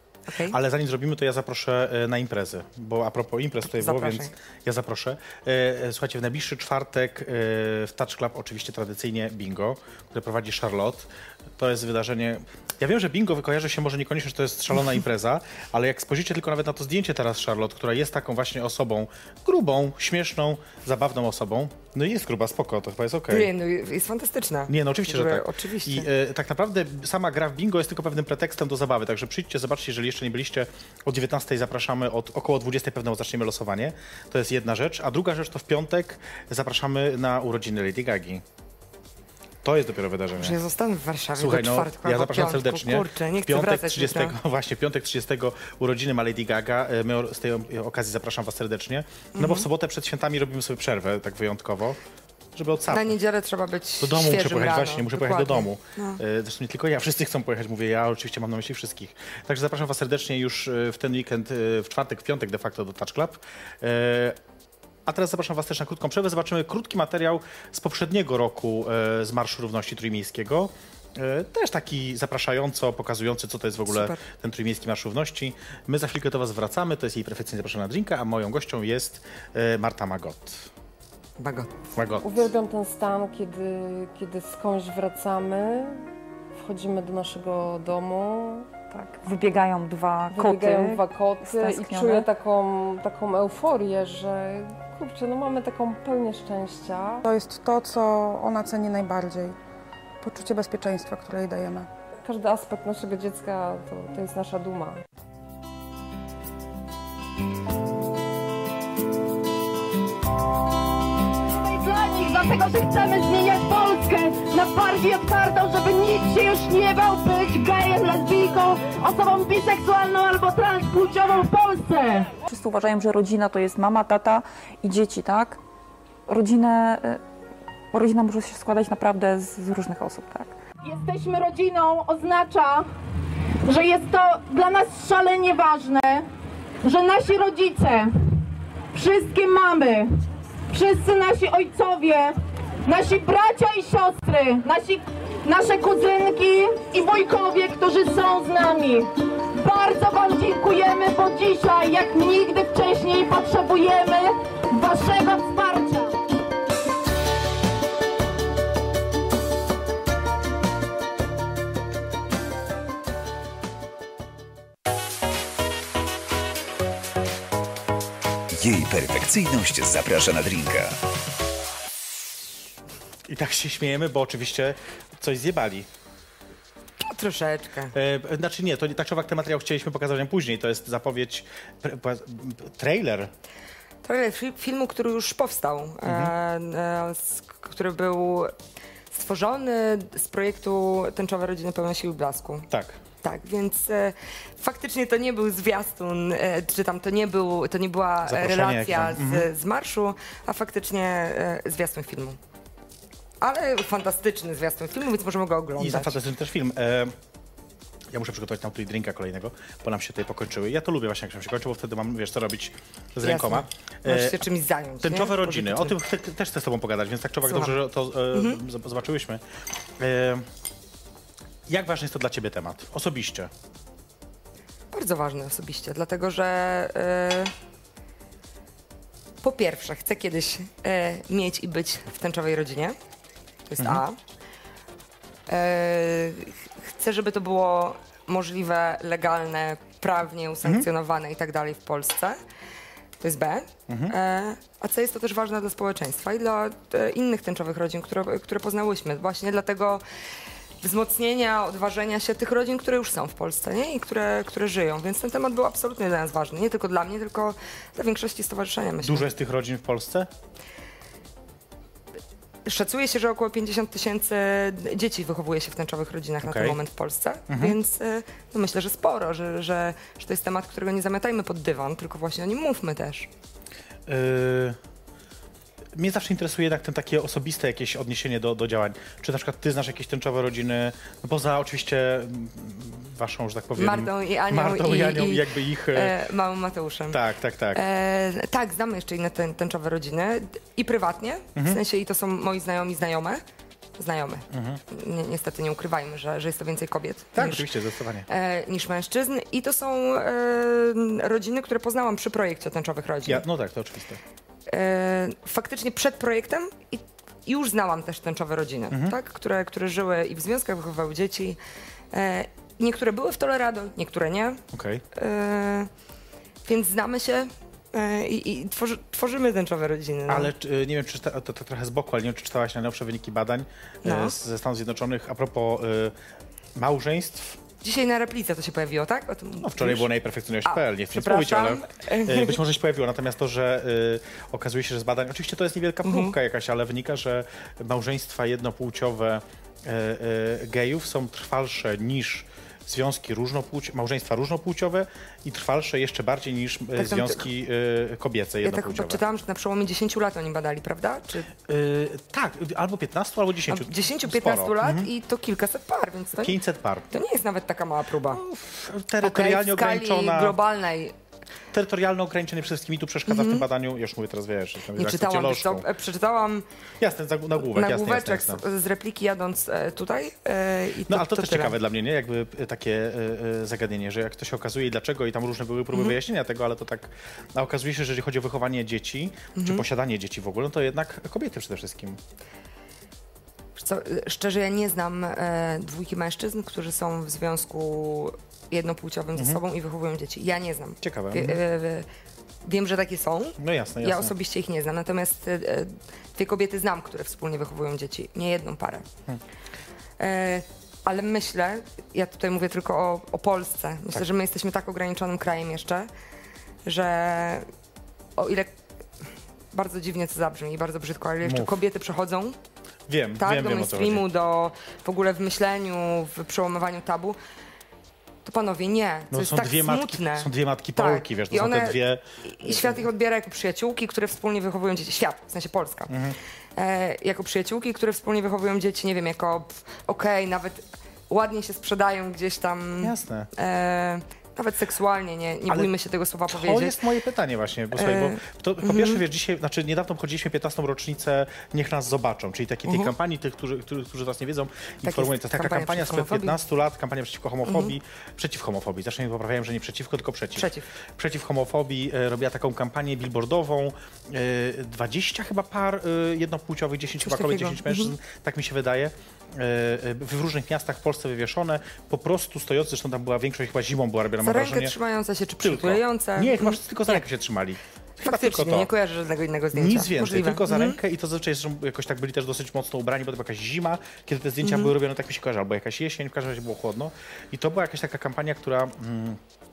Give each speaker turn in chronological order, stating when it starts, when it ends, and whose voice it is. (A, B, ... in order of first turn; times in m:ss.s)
0:00.3-0:00.6 A
0:00.5-0:23.5 B
0:03.6-0:04.3 A
0:23.3-0:26.1 A
0:24.7-0:38.4 B
0:39.6-0:40.6 B
0:40.4-0:44.4 A
0:41.4-0:52.0 B
0:49.4-0:49.7 A
0:52.5-0:53.2 B
0:52.9-0:56.2 A
0:54.0-1:04.4 B
1:05.1-1:20.7 B
1:13.9-1:14.2 A
1:21.4-1:21.8 A
1:22.0-1:22.5 B
1:22.2-1:26.0 C
1:26.6-1:29.2 C
1:29.1-1:32.3 D
1:30.3-1:37.2 C
1:37.2-1:39.6 E
1:40.2-1:41.9 E
1:42.2-1:45.0 C
1:51.5-2:02.3 F
2:02.5-2:05.6 D
2:06.3-2:07.2 D
2:07.9-2:10.5 D
2:10.8-2:12.9 F
2:13.7-2:16.3 F
2:16.8-2:18.1 F
2:18.9-2:20.1 F
2:20.7-2:36.2 F
2:48.5-2:51.0 G
2:53.3-2:55.9 B
2:57.0-2:57.9 A
2:57.9-3:03.3 B
3:04.0-3:08.5 A
3:06.1-3:06.3 B
3:09.1-3:12.7 A
3:12.7-3:13.0 B
3:13.2-3:22.4 A
3:18.3-3:19.5 B
3:23.4-3:26.2 A
3:25.8-3:27.2 B
3:28.1-3:34.4 B
3:33.2-3:36.0 A
3:35.0-3:39.4 B
3:37.4-3:37.8 A
3:38.3-3:38.6 A
3:40.0-3:40.5 B
3:41.7-3:43.5 B
3:44.9-3:47.5 A
3:49.4-3:53.0 A
3:53.7-3:54.2 A
3:55.5-4:02.4 A
4:03.2-4:10.0 A
4:03.9-4:04.1 B
4:10.8-4:19.2 A
4:19.0-4:20.3 B
4:22.6-4:33.3 A
4:26.4-4:26.8 B
4:27.5-4:27.8 B
4:34.1-4:34.8 B
4:36.0-4:46.2 B
4:43.8-4:47.2 A
4:47.1-4:47.8 B
4:47.7-4:53.4 A
4:51.6-4:51.8 B
4:54.0-4:57.7 A
4:54.5-4:54.8 B
4:57.4-4:58.3 B
4:58.3-5:03.4 A
5:03.2-5:04.2 B
5:04.7-5:11.6 A
5:08.9-5:09.2 B
5:12.1-5:14.6 A
5:14.7-5:15.0 B
5:15.1-5:15.9 A
5:16.6-5:20.5 A
5:20.3-5:26.2 B
5:24.0-5:24.4 A
5:26.8-5:27.6 B
5:27.8-5:30.1 A
5:29.6-5:49.2 B
5:30.6-5:32.6 A
5:36.0-5:36.3 A
5:47.0-5:47.4 A
5:48.6-5:51.5 A
5:51.6-5:55.1 B
5:53.7-5:56.6 A
5:56.4-5:57.1 B
5:57.1-5:58.4 A
5:58.3-6:00.6 B
5:59.2-6:01.1 A
6:01.7-6:05.9 B
6:03.3-6:03.6 A
6:05.0-6:06.6 A
6:07.0-6:08.6 B
6:07.6-6:11.8 A
6:11.1-6:22.2 B
6:19.6-6:19.8 A
6:23.8-6:32.1 A
6:31.0-6:31.6 B
6:32.6-6:39.0 A
6:33.6-6:34.3 B
6:40.2-6:46.1 A
6:46.8-6:47.7 A
6:48.4-6:48.7 A
6:49.7-6:52.6 A
6:51.4-6:51.7 B
6:53.1-6:54.3 B
6:53.4-6:57.4 A
6:58.4-7:06.1 A
6:59.3-7:03.0 B
7:06.1-7:06.4 B
7:06.8-7:17.0 A
7:13.0-7:13.5 B
7:16.5-7:44.9 B
7:18.0-7:19.2 A
7:22.9-7:23.1 A
7:25.0-7:26.6 A
7:27.6-7:27.9 A
7:30.6-7:30.8 A
7:37.2-7:38.1 A
7:44.4-7:47.2 A
7:45.6-7:48.9 B
7:48.2-7:51.0 A
7:49.7-7:59.4 B
7:54.6-7:54.9 A